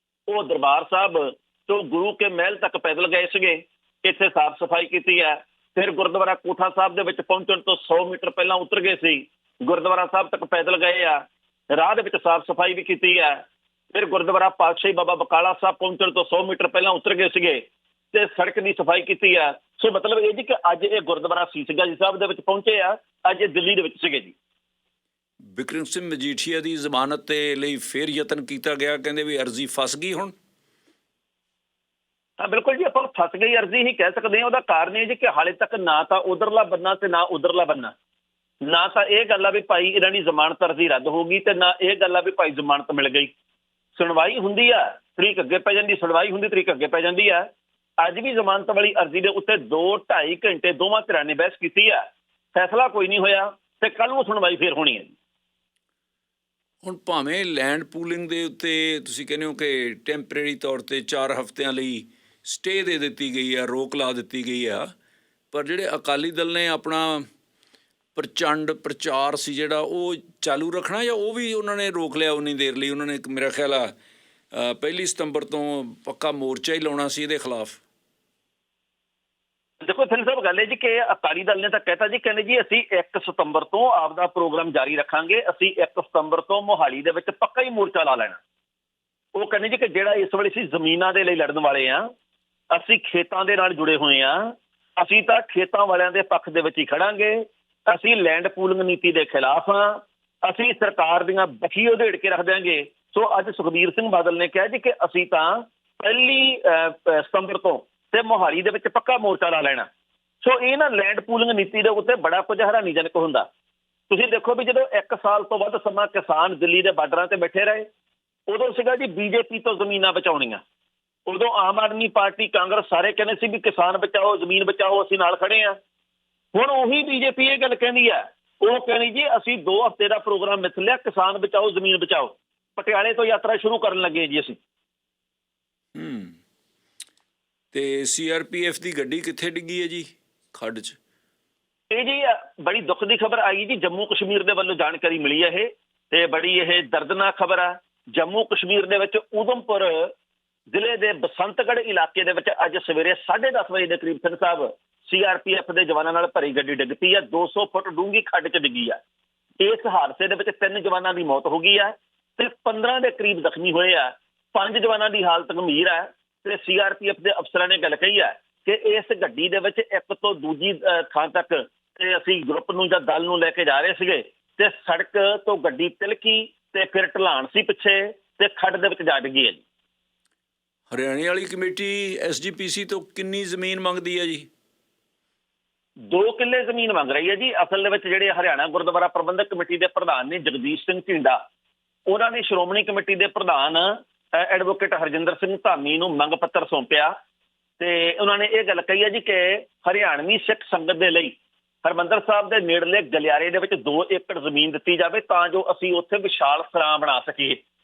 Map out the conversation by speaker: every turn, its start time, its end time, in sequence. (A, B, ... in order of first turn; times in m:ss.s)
0:00.3-0:11.2 A
0:11.7-0:17.6 A
0:18.1-0:24.3 A
0:25.5-0:30.3 B
0:32.4-0:37.9 A
0:38.6-0:43.3 A
0:44.0-0:47.5 A
0:48.0-0:52.0 A
0:52.5-0:55.1 A
0:56.8-1:04.9 B
1:05.5-1:07.3 B
1:08.1-1:13.9 B
1:14.5-1:17.8 B
1:19.8-1:28.4 A
1:29.3-1:32.1 A
1:32.7-1:49.9 A
1:50.4-1:53.5 A
1:54.1-1:57.9 A
1:58.5-2:00.6 A
2:01.3-2:05.8 A
2:06.5-2:14.6 A
2:15.9-2:16.4 B
2:17.7-2:21.0 B
2:21.9-2:30.1 A
2:30.7-2:39.0 A
2:39.6-2:59.6 A
3:00.9-3:04.5 B
3:06.1-3:11.4 A
3:12.1-3:17.1 A
3:17.8-3:27.6 A